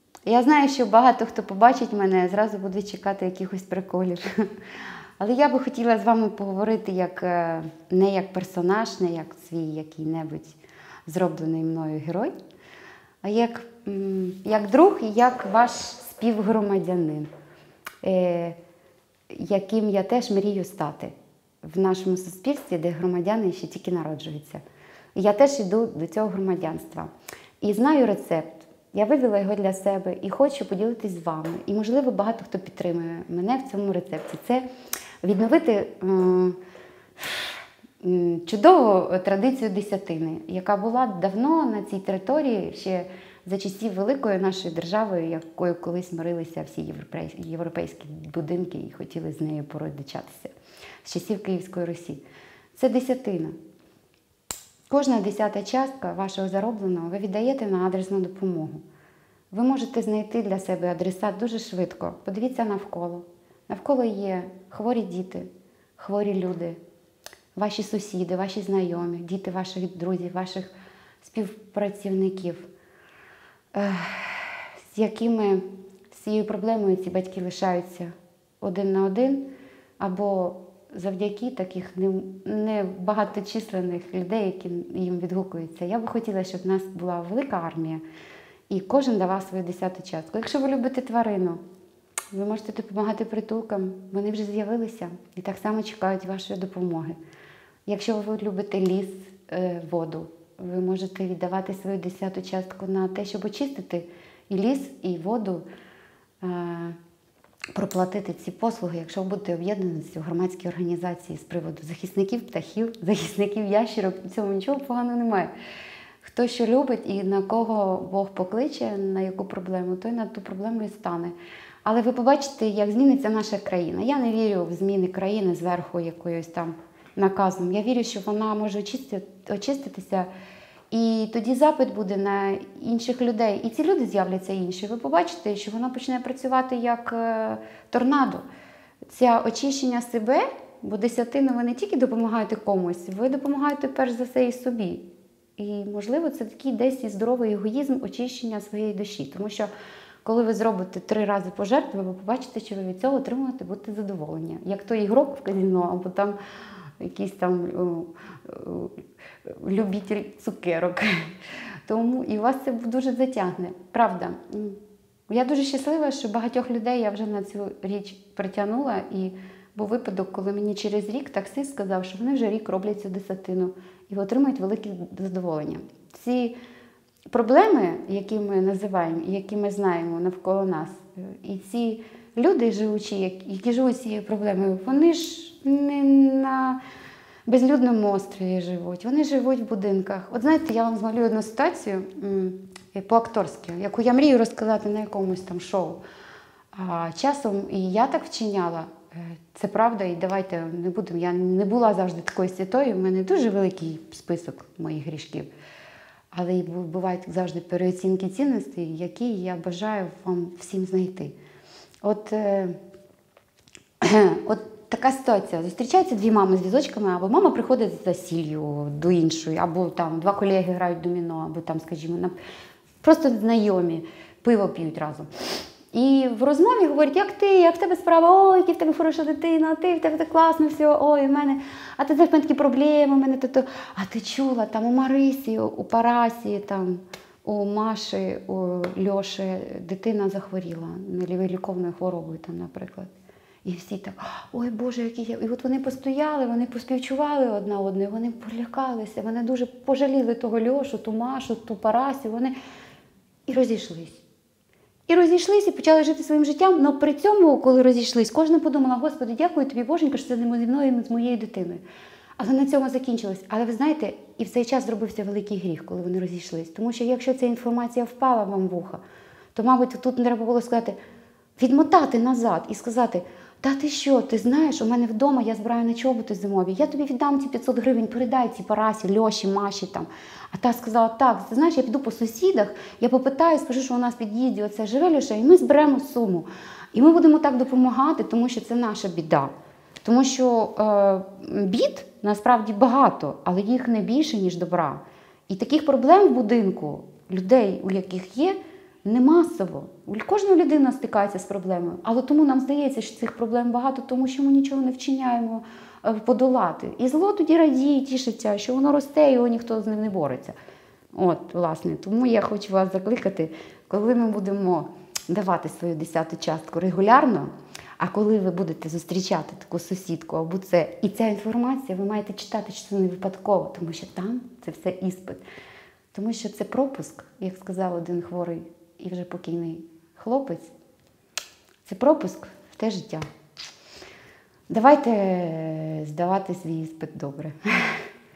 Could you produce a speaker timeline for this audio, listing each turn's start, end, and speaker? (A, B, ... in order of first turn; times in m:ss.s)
0:00.3-0:04.4 A
0:05.2-0:12.3 A
0:13.2-0:17.3 A
0:18.0-0:18.6 A
0:19.3-0:24.6 A
0:25.2-0:34.6 A
0:35.2-0:36.6 A
0:37.2-0:50.5 A
0:51.0-0:52.2 A
0:52.7-0:53.6 A
0:54.9-0:58.8 A
0:59.5-1:06.8 A
1:07.6-1:12.7 A
1:13.7-1:19.5 A
1:20.0-1:28.0 A
1:28.7-1:31.6 A
1:32.3-1:37.2 A
1:37.9-1:45.7 A
1:46.4-1:47.0 A
1:47.8-1:55.5 A
1:56.2-2:10.3 A
2:10.9-2:18.4 A
2:19.1-2:29.7 A
2:30.2-2:36.4 A
2:37.0-2:41.3 A
2:41.9-2:56.6 A
2:57.3-3:06.8 A
3:07.5-3:16.0 A
3:16.7-3:25.5 A
3:26.3-3:31.4 A
3:32.0-3:32.8 A
3:34.0-3:42.3 A
3:43.0-3:45.3 A
3:45.9-4:03.1 A
4:03.6-4:12.6 A
4:13.5-4:14.2 A
4:15.1-4:21.8 A
4:22.4-4:29.0 A
4:29.6-4:31.0 A
4:31.6-4:49.5 A
4:50.0-5:10.6 A
5:11.1-5:25.4 A
5:26.1-5:30.7 A
5:31.8-5:33.2 A
5:34.7-5:38.1 A